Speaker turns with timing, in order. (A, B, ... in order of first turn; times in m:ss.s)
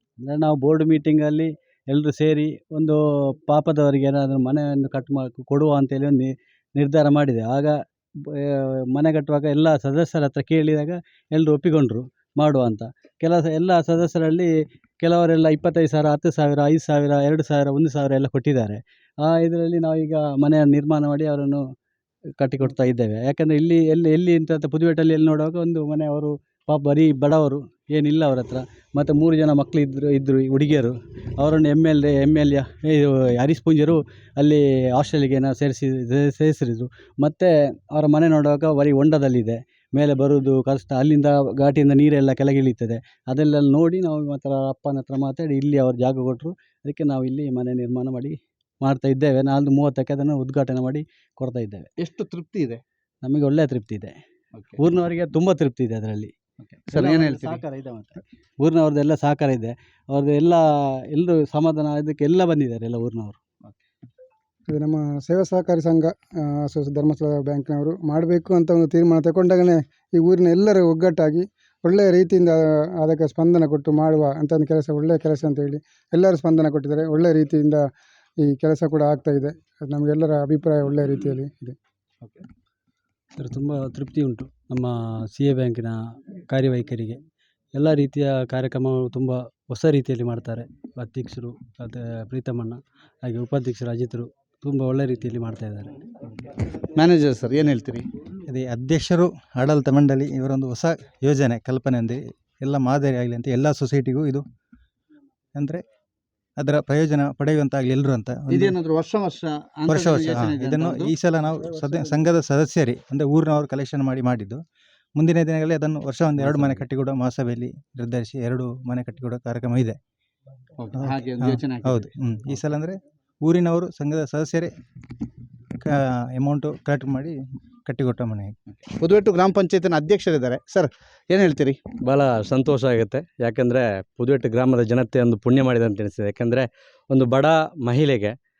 0:00.2-0:07.7 A
0:08.3-0:14.5 A
0:15.0-0:21.6 A
0:22.4-0:51.9 A
0:52.0-0:52.8 B
0:53.2-0:54.2 A
0:54.8-0:56.3 A
0:56.6-0:57.6 B
0:56.9-1:03.4 A
1:04.7-1:17.8 C
1:18.4-1:21.8 C
1:23.4-1:27.2 A
1:27.7-1:36.1 A
1:36.9-1:38.0 B
1:38.4-1:44.4 D
1:45.6-1:45.8 D
1:46.6-1:48.7 D
1:48.5-1:51.1 B
1:49.9-1:54.6 D
1:55.2-2:00.0 D
2:00.8-2:02.1 B
2:01.0-2:04.7 D
2:05.8-2:08.6 D
2:09.0-2:11.8 B
2:12.0-2:18.3 E